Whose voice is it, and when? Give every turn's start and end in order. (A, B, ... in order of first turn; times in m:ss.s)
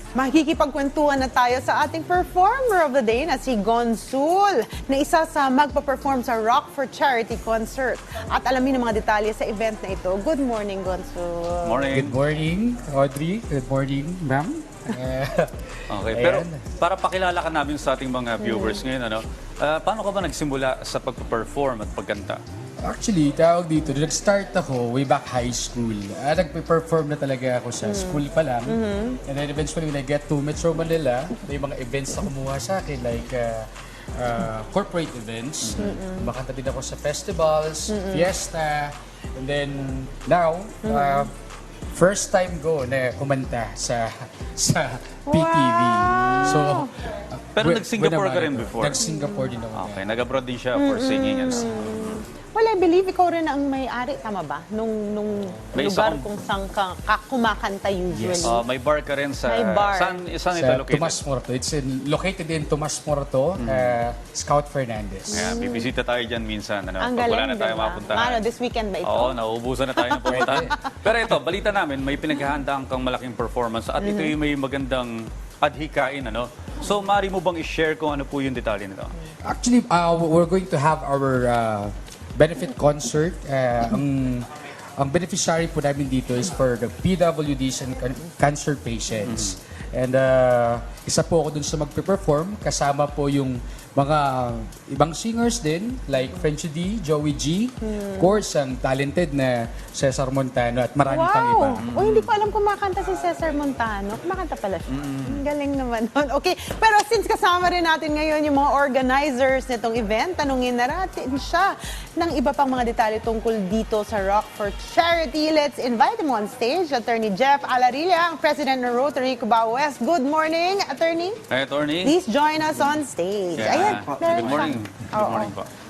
0:00.1-0:12.0 A
0:11.6-0:12.2 B
0:11.9-0:16.6 C
0:15.9-0:22.4 B
0:18.4-0:18.8 A
0:22.8-0:41.3 C
0:27.8-0:29.2 A
0:35.6-0:35.9 B
0:35.8-0:36.3 A
0:37.9-0:38.3 A
0:40.8-0:41.3 A
0:41.9-0:50.0 C
0:45.3-0:46.9 A
0:47.6-0:49.0 B
0:49.0-0:49.5 A
0:49.8-0:52.2 B
0:50.8-0:58.6 A
0:55.7-0:56.2 B
0:58.1-0:58.5 C
0:58.4-1:01.2 B
0:59.4-1:00.2 A
1:00.5-1:05.5 C
1:03.6-1:04.0 B
1:05.3-1:05.9 A
1:05.3-1:08.4 B
1:07.0-1:09.4 A
1:09.0-1:19.2 B
1:10.0-1:10.8 A
1:14.0-1:14.3 A
1:19.4-1:41.8 C
1:29.2-1:29.6 B
1:37.8-1:38.4 A
1:41.1-2:01.4 A
1:41.8-1:42.3 B
1:44.9-1:45.4 B
2:01.5-2:02.1 B
2:02.0-2:05.5 A
2:03.6-2:05.7 B